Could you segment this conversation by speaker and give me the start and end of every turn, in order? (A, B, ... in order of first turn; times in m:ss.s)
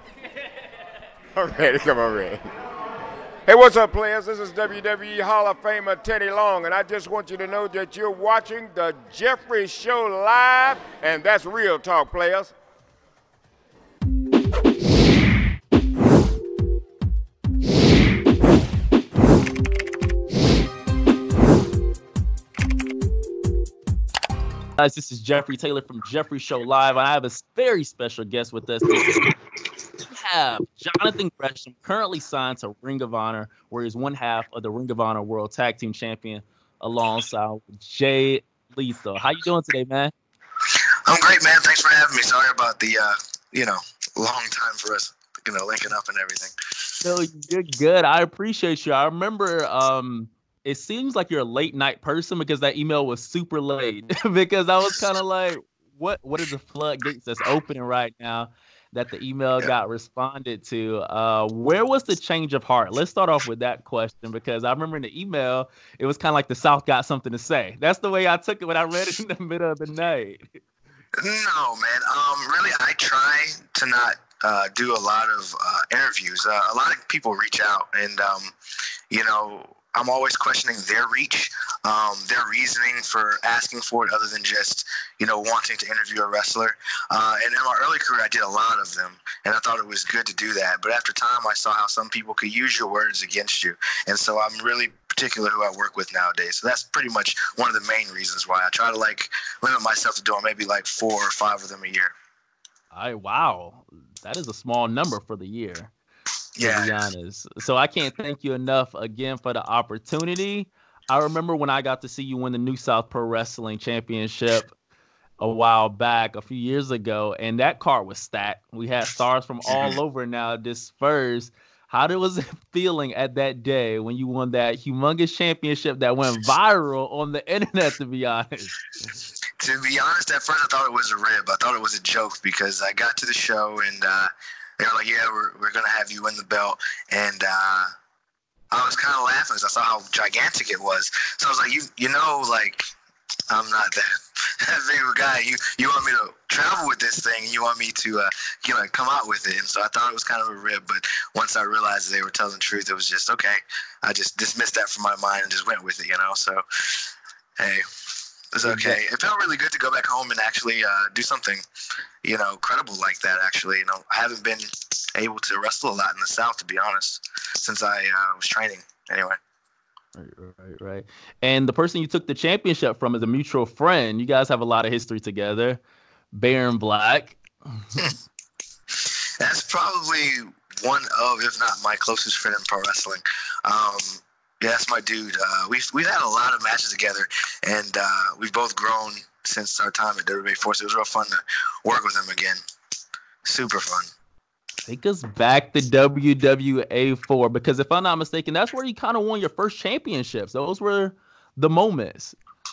0:01.4-0:02.4 A
0:03.5-0:12.5 A
0:24.8-0:29.2 B
0:30.1-0:40.1 B
0:41.0-0:46.5 C
0:47.0-1:10.6 B
1:11.2-1:18.5 C
1:19.1-1:42.1 C
1:42.9-1:45.9 B
1:46.6-1:47.0 C
1:46.6-1:54.7 B
1:55.4-2:09.1 B
1:59.7-2:00.0 C
2:09.6-2:17.9 C
2:18.7-2:22.9 C
2:23.5-2:37.8 C
2:38.5-2:41.6 C
2:38.6-2:39.0 B
2:42.2-2:49.4 C
2:50.1-2:55.8 B
2:56.3-2:58.1 B
2:58.9-3:12.6 C
3:13.4-3:14.1 C
3:14.8-3:22.4 B